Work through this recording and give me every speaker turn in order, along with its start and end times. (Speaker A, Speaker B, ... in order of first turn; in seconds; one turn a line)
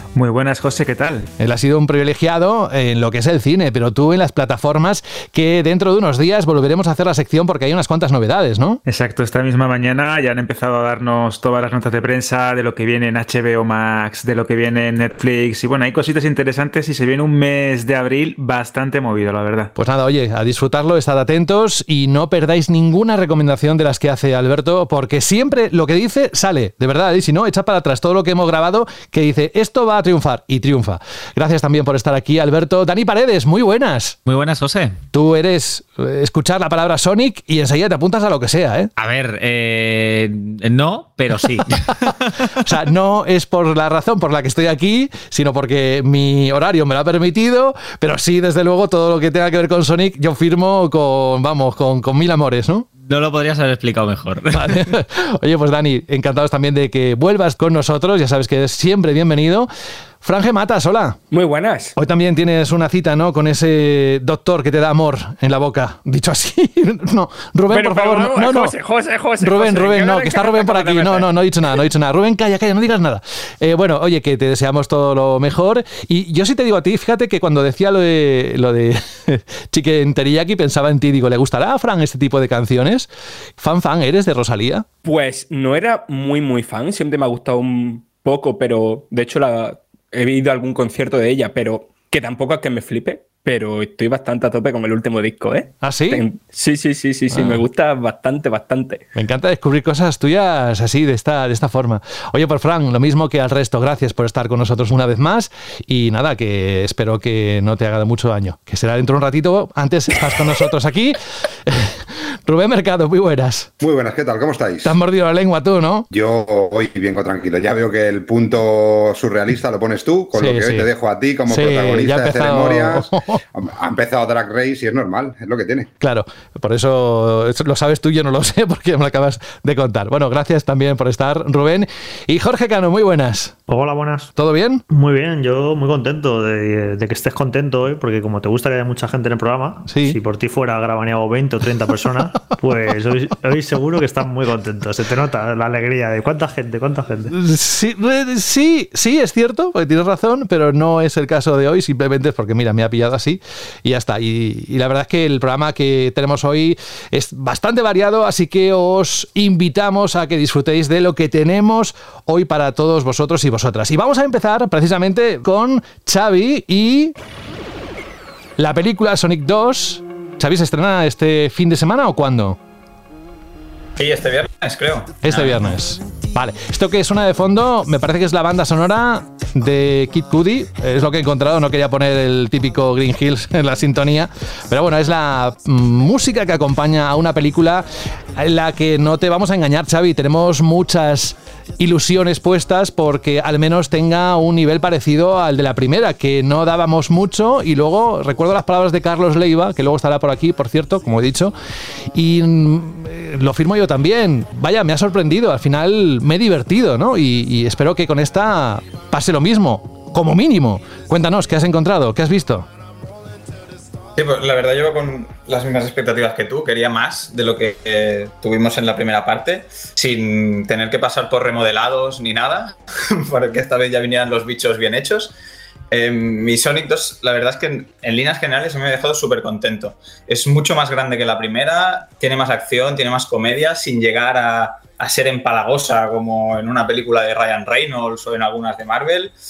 Speaker A: 0.1-1.3
Speaker B: 1.4-8.8
Speaker A: 8.8-19.7
Speaker B: 19.8-34.2
Speaker C: 34.2-35.0
Speaker B: 35.1-38.9
Speaker C: 39.0-42.6
Speaker B: 42.6-52.9
Speaker C: 53.0-54.9
Speaker B: 54.5-59.7
Speaker B: 60.2-61.2
Speaker D: 61.3-61.9
Speaker B: 62.0-68.7
Speaker D: 67.7-71.3
Speaker B: 69.4-84.8
Speaker D: 85.0-99.0
Speaker B: 95.8-96.2
Speaker B: 97.3-97.6
Speaker B: 99.2-113.7
Speaker E: 113.8-115.0
Speaker B: 114.8-116.1
Speaker E: 116.1-125.9
Speaker B: 120.4-120.9
Speaker B: 121.5-123.4
Speaker B: 126.0-133.5
Speaker F: 133.7-134.3
Speaker B: 134.3-134.8
Speaker F: 134.9-147.3
Speaker B: 139.9-140.2
Speaker B: 147.3-167.1
Speaker B: 168.6-172.6
Speaker G: 174.0-175.7
Speaker B: 175.2-201.5
Speaker B: 202.1-212.7
Speaker G: 214.2-225.3
Speaker G: 225.9-239.3